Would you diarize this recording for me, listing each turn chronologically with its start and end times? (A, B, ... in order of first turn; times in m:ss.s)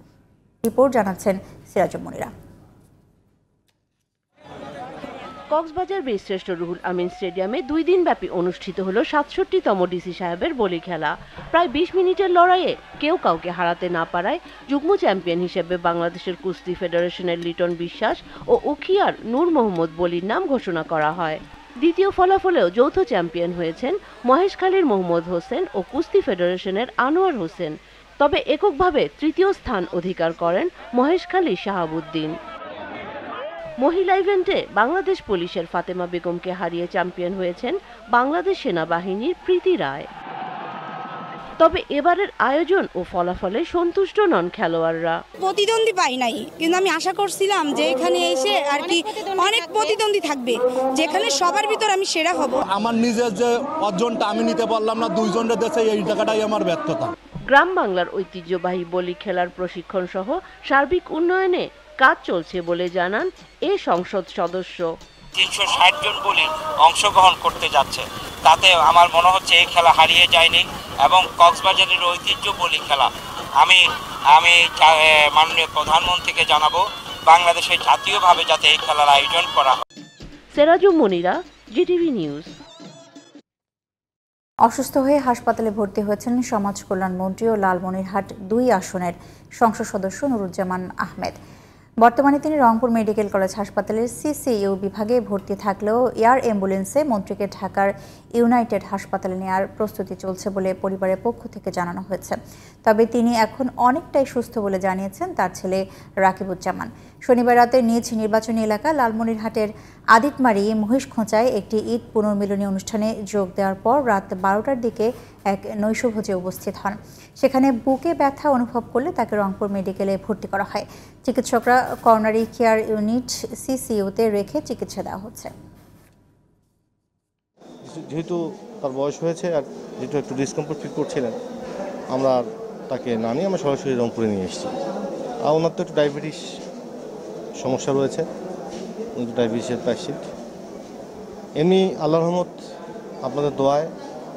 0:00.6-0:02.3 A
0:05.5-0:32.4 B
0:33.8-0:40.1 B
0:41.6-0:45.2 B
0:45.4-0:52.6 C
0:52.6-0:57.1 D
0:57.5-1:04.9 B
1:05.4-1:19.8 E
1:20.5-1:22.5 B
1:24.7-1:31.4 A
1:32.0-2:05.5 A
2:07.8-2:11.4 F
2:12.1-2:14.7 F
2:15.4-2:16.4 F
2:17.6-2:18.3 F
2:19.2-2:20.3 F
2:21.6-2:22.6 F
2:23.2-2:23.9 F